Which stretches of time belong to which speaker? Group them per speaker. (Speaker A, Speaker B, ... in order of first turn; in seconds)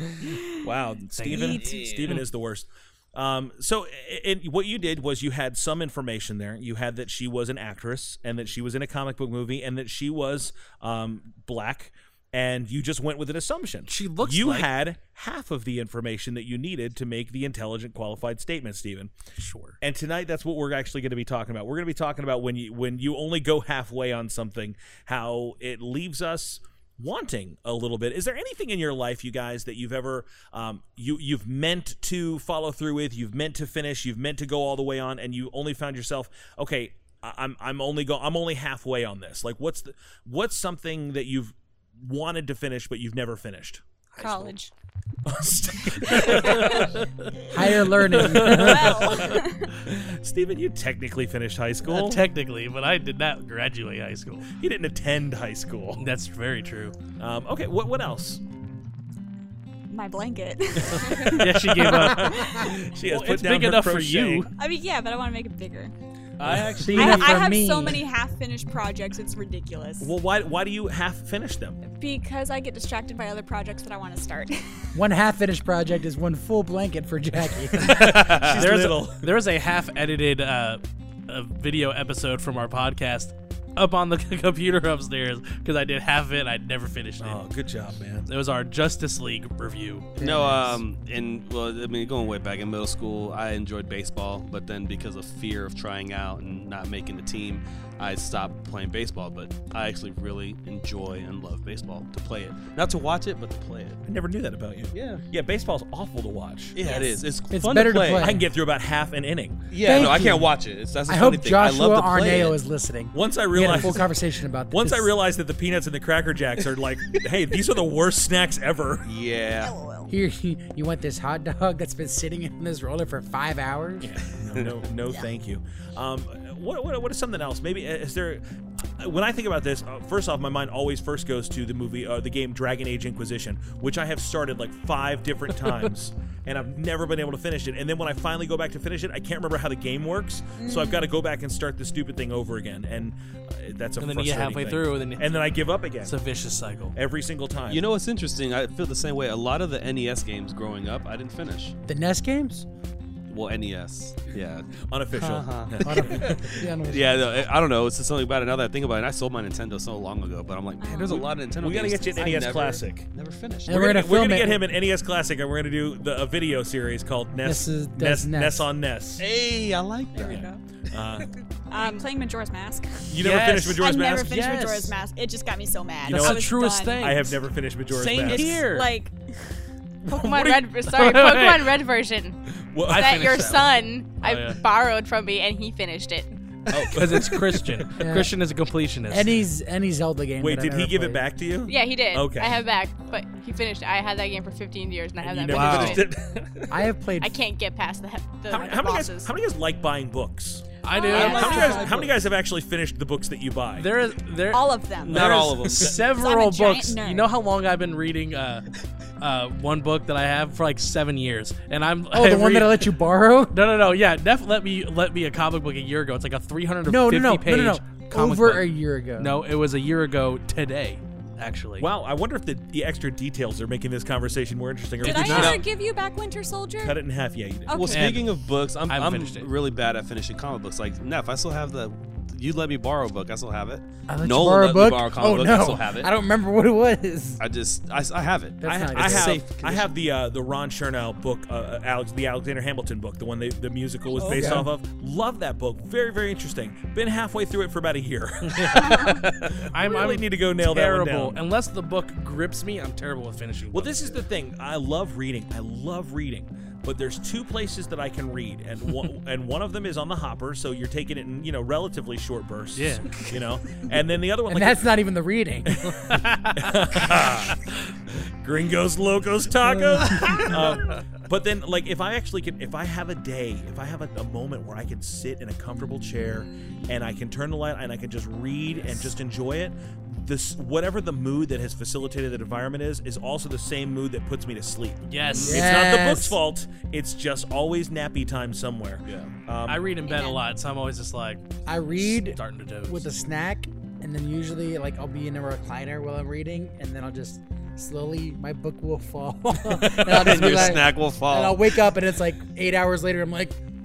Speaker A: 0.2-19.1, 19.8-43.8, 45.2-46.9, 48.3-52.2, 54.6-56.0, 57.2-58.4, 60.9-64.5, 66.4-67.2, 70.0-71.8, 77.8-79.3, 87.2-88.3, 104.0-106.8, 108.2-109.6, 113.1-114.1, 114.7-119.1, 124.0-146.2, 146.9-147.8, 154.8-156.2, 161.1-163.1, 163.7-169.2, 170.2-171.3, 173.1-174.4, 176.0-178.6, 180.1-180.7, 182.7-183.4, 186.7-187.6, 190.4-192.6, 195.2-196.7, 198.5-203.9, 221.8-225.6, 226.8-227.8, 238.6-251.4, 253.7-264.8, 266.6-267.6, 268.4-289.9
Speaker B: 1.1-2.2, 13.9-14.7, 19.4-19.8, 44.2-44.5, 46.1-46.9, 48.1-48.9, 51.9-54.5, 56.0-56.9, 60.9-64.5, 77.8-87.4, 88.3-90.8, 144.0-145.4, 146.0-146.9, 173.2-174.9, 176.1-178.9, 180.9-181.7, 182.9-184.6, 186.8-189.4, 195.5-196.0, 200.8-202.1, 203.8-212.9, 213.5-221.9, 225.0-225.6, 227.9-229.5, 248.5-254.2, 262.7-263.3, 266.1-266.7, 285.1-285.7, 289.6-293.1
Speaker C: 1.6-1.9, 66.4-67.1, 90.2-104.0, 104.9-105.2, 106.7-108.4, 109.7-112.6, 119.0-119.8, 147.7-151.7, 153.3-163.8, 169.2-170.5, 195.5-196.0, 205.0-206.0, 225.2-225.6, 227.7-236.1, 237.4-239.9, 289.0-289.3, 300.0-301.8
Speaker D: 44.2-44.7, 46.2-46.8, 48.6-49.6, 59.9-61.5, 64.6-65.9, 66.9-70.1, 71.9-74.8, 106.8-107.2, 119.6-120.1, 140.6-141.1, 160.8-161.3, 170.1-170.6, 171.7-177.2, 178.2-179.3, 200.9-202.0, 204.5-207.3, 225.0-227.0, 227.7-228.3, 248.8-249.2, 276.4-276.8, 290.0-290.4
Speaker E: 47.5-49.0, 66.8-68.0, 74.9-77.8, 90.2-90.6, 107.5-108.4, 109.8-110.5, 111.0-115.1, 120.1-124.1, 151.8-152.7, 155.8-157.2, 163.7-164.6, 167.4-168.7, 188.0-188.3, 189.1-191.2, 196.7-197.4, 212.1-213.6, 216.9-219.3, 234.1-237.4, 238.6-239.4, 244.3-244.7, 264.5-265.8, 269.7-270.4, 285.4-286.4, 291.6-303.6
Speaker F: 180.1-182.4, 182.9-186.3, 191.7-196.0, 197.2-199.3